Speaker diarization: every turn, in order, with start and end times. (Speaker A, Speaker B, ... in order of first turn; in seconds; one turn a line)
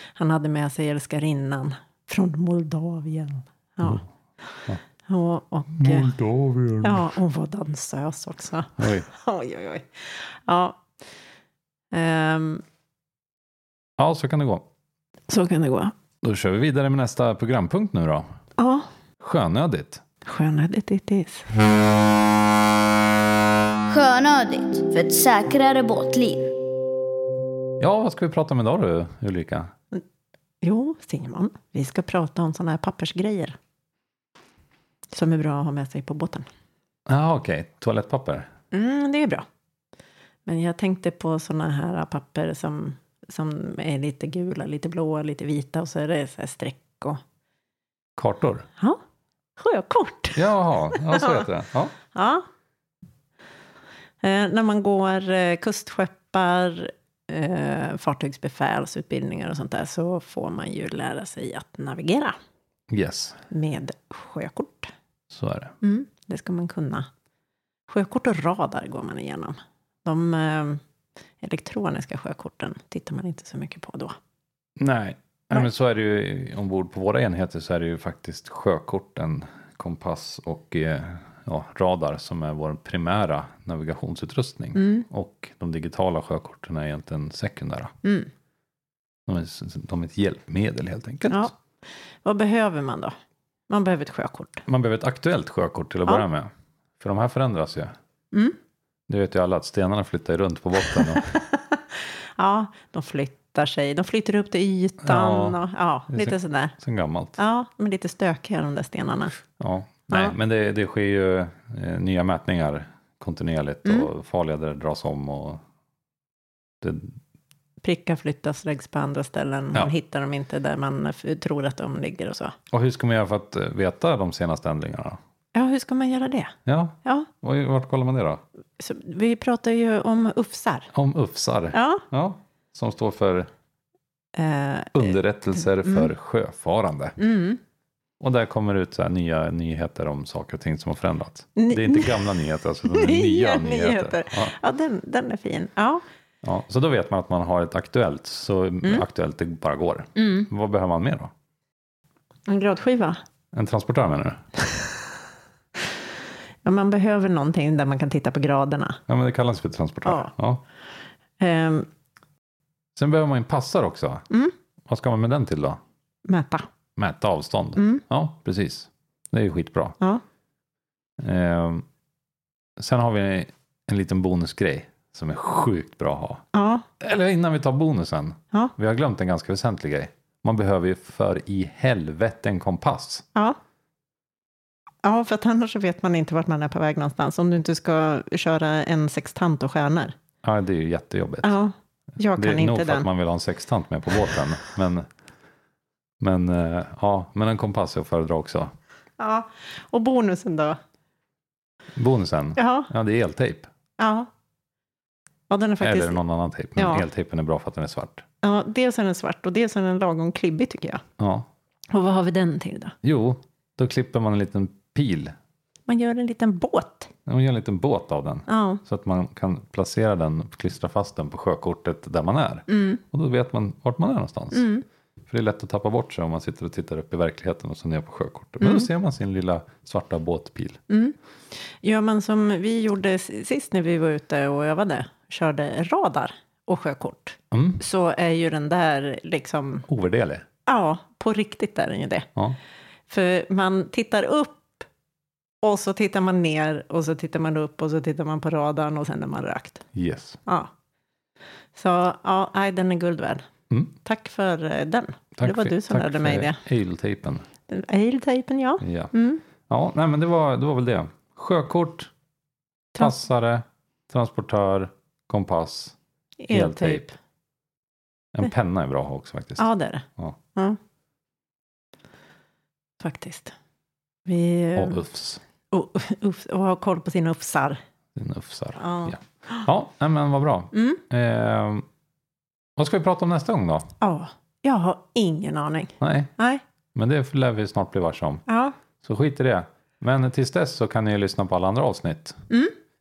Speaker A: 0.1-6.1
Speaker B: 5.7-7.1
Speaker A: 6.8-10.8
Speaker B: 8.8-9.1
Speaker A: 11.9-12.6
Speaker B: 14.0-14.7
Speaker A: 15.3-15.9
Speaker B: 16.2-18.3
Speaker A: 18.6-18.9
Speaker B: 19.2-20.0
Speaker A: 20.2-21.5
Speaker C: 23.9-26.5
Speaker B: 27.8-29.7
Speaker A: 30.6-33.5
Speaker A: 35.1-36.5
Speaker B: 37.1-38.5
Speaker A: 38.7-39.4
Speaker A: 40.5-47.2
Speaker B: 48.2-48.7
Speaker A: 49.6-51.5
Speaker B: 50.3-51.9
Speaker A: 52.1-52.5
Speaker A: 54.2-62.3
Speaker B: 62.9-63.4
Speaker A: 63.5-64.9
Speaker B: 65.3-65.7
Speaker A: 65.8-67.1
Speaker A: 67.9-70.8
Speaker A: 71.4-74.2
Speaker B: 74.8-87.9
Speaker A: 84.7-85.0
Speaker A: 88.0-88.3
Speaker B: 89.3-91.5
Speaker A: 92.2-93.1
Speaker A: 93.7-94.6
Speaker B: 94.7-97.9
Speaker B: 99.1-101.3
Speaker A: 101.2-106.7
Speaker B: 105.0-107.4
Speaker A: 107.4-109.3
Speaker B: 109.6-115.6
Speaker A: 110.1-110.3
Speaker B: 116.8-117.2
Speaker A: 117.8-122.5
Speaker B: 122.7-125.2
Speaker A: 125.5-127.3
Speaker B: 126.7-128.4
Speaker A: 128.8-130.9
Speaker B: 130.9-133.5
Speaker A: 131.7-132.0
Speaker A: 134.3-135.2
Speaker B: 134.9-137.2
Speaker A: 135.8-136.1
Speaker A: 137.2-137.6
Speaker B: 138.2-144.5
Speaker A: 141.6-142.3
Speaker A: 142.9-146.0
Speaker B: 146.4-151.3
Speaker A: 150.2-150.5
Speaker A: 152.5-153.2
Speaker B: 153.5-154.4
Speaker A: 156.6-159.0
Speaker B: 159.1-160.6
Speaker A: 161.4-161.9
Speaker B: 162.9-164.2
Speaker B: 164.9-165.8
Speaker A: 166.2-166.7
Speaker B: 167.0-170.0
Speaker A: 167.8-168.0
Speaker B: 171.2-171.8
Speaker B: 172.8-176.4
Speaker A: 176.5-176.8
Speaker B: 177.0-183.2
Speaker A: 185.0-190.1
Speaker B: 190.4-191.6
Speaker A: 191.4-193.1
Speaker B: 192.3-195.1
Speaker B: 196.2-198.7
Speaker A: 199.2-200.8
Speaker B: 201.9-203.7
Speaker A: 202.6-202.9
Speaker A: 204.0-204.3
Speaker A: 205.5-206.2
Speaker B: 205.8-208.2
Speaker A: 206.8-207.0
Speaker A: 208.4-211.0
Speaker B: 211.2-211.5
Speaker A: 211.9-212.9
Speaker B: 213.0-215.3
Speaker A: 215.9-217.1
Speaker B: 217.2-224.7
Speaker A: 218.5-218.8
Speaker A: 222.7-223.0
Speaker A: 224.5-224.8
Speaker B: 225.3-230.8
Speaker A: 228.6-228.9
Speaker A: 230.9-239.8
Speaker B: 237.5-237.8
Speaker B: 239.9-240.4
Speaker A: 240.7-242.3
Speaker A: 243.1-244.9
Speaker A: 245.6-249.8
Speaker B: 249.9-250.4
Speaker A: 250.4-250.7
Speaker A: 251.7-253.4
Speaker A: 254.0-256.6
Speaker B: 255.3-257.4
Speaker A: 257.7-259.4
Speaker B: 258.8-259.1
Speaker B: 259.7-262.1
Speaker B: 263.0-265.9
Speaker A: 266.4-267.1
Speaker B: 266.5-267.1
Speaker B: 268.3-270.4
Speaker A: 269.6-270.8
Speaker A: 273.0-273.5
Speaker A: 274.2-275.0
Speaker B: 274.7-275.4
Speaker A: 275.7-277.8
Speaker B: 278.1-281.8
Speaker A: 278.8-279.6
Speaker A: 280.7-281.0
Speaker B: 282.8-283.9
Speaker A: 284.0-286.6
Speaker B: 286.0-286.3
Speaker B: 286.9-288.4
Speaker A: 288.5-288.8
Speaker B: 289.0-292.4